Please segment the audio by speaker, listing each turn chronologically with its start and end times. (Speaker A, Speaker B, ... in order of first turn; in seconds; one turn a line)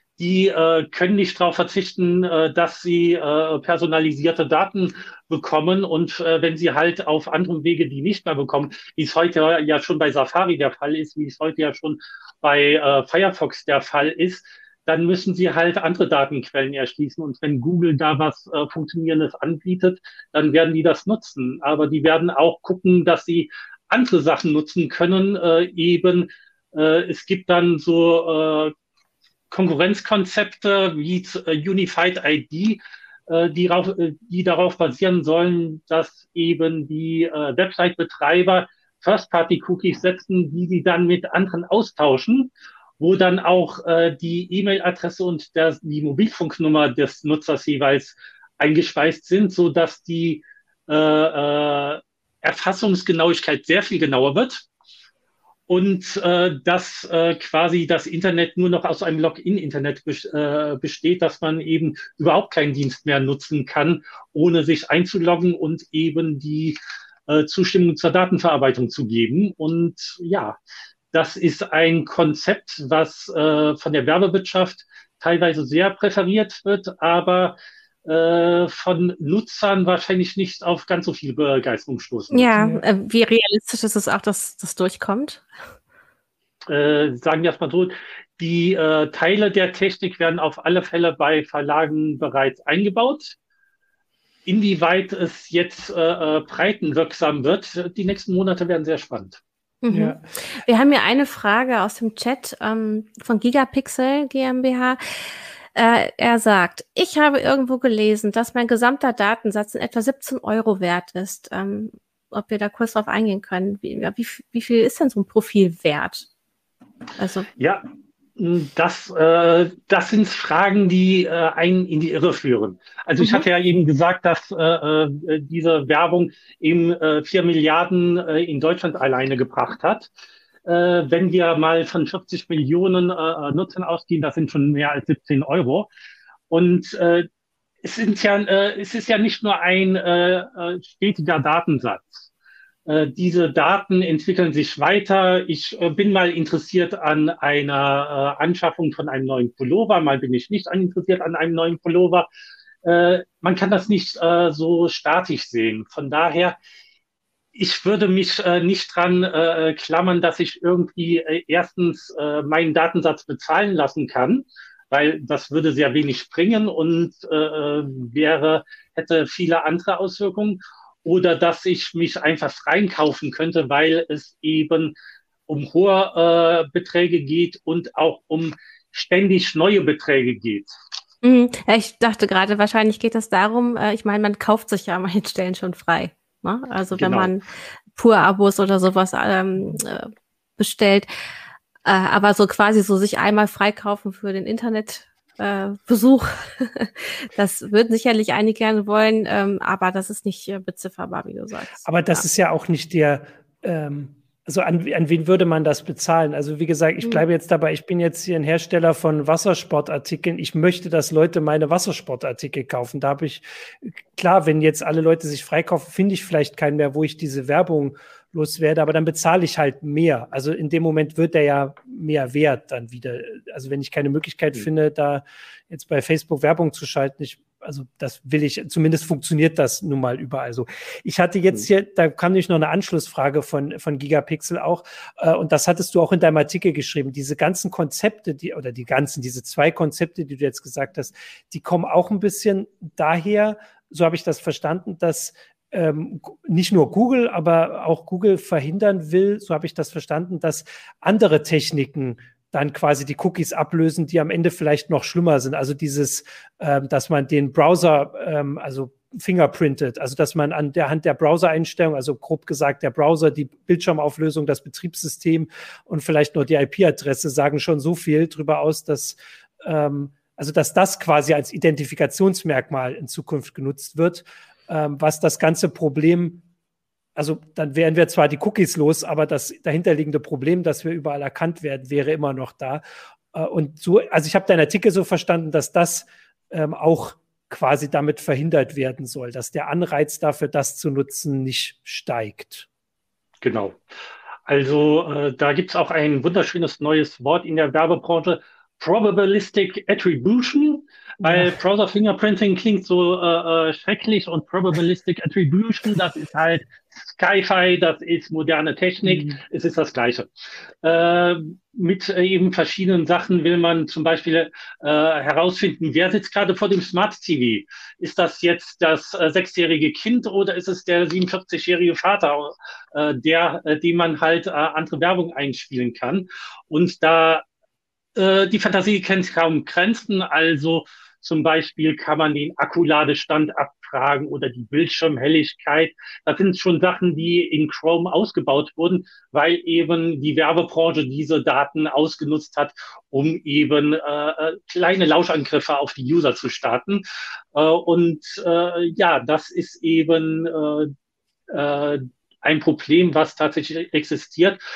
Speaker A: 0.2-28.7
Speaker A: 29.5-54.7
Speaker A: 55.7-70.6
Speaker A: 71.1-82.5
Speaker B: 82.3-85.5
Speaker C: 82.6-82.8
Speaker A: 86.7-93.4
Speaker A: 94.5-99.4
Speaker B: 99.8-105.0
Speaker C: 99.9-100.2
Speaker B: 105.8-116.3
Speaker B: 117.2-117.5
Speaker A: 117.6-117.8
Speaker A: 118.4-130.1
Speaker B: 123.2-123.5
Speaker A: 130.7-135.9
Speaker A: 136.5-137.3
Speaker A: 137.8-142.3
Speaker A: 142.9-152.3
Speaker A: 152.8-156.6
Speaker A: 157.6-174.9
Speaker A: 175.5-180.7
Speaker B: 181.2-187.4
Speaker A: 186.9-187.3
Speaker B: 187.9-191.1
Speaker B: 191.8-202.2
Speaker C: 201.8-276.4
Speaker C: 277.2-292.7
Speaker A: 293.4-293.8
Speaker A: 294.5-310.3
Speaker C: 301.2-301.6
Speaker C: 309.0-309.4
Speaker A: 310.8-327.4
Speaker A: 328.2-350.9
Speaker A: 351.5-354.6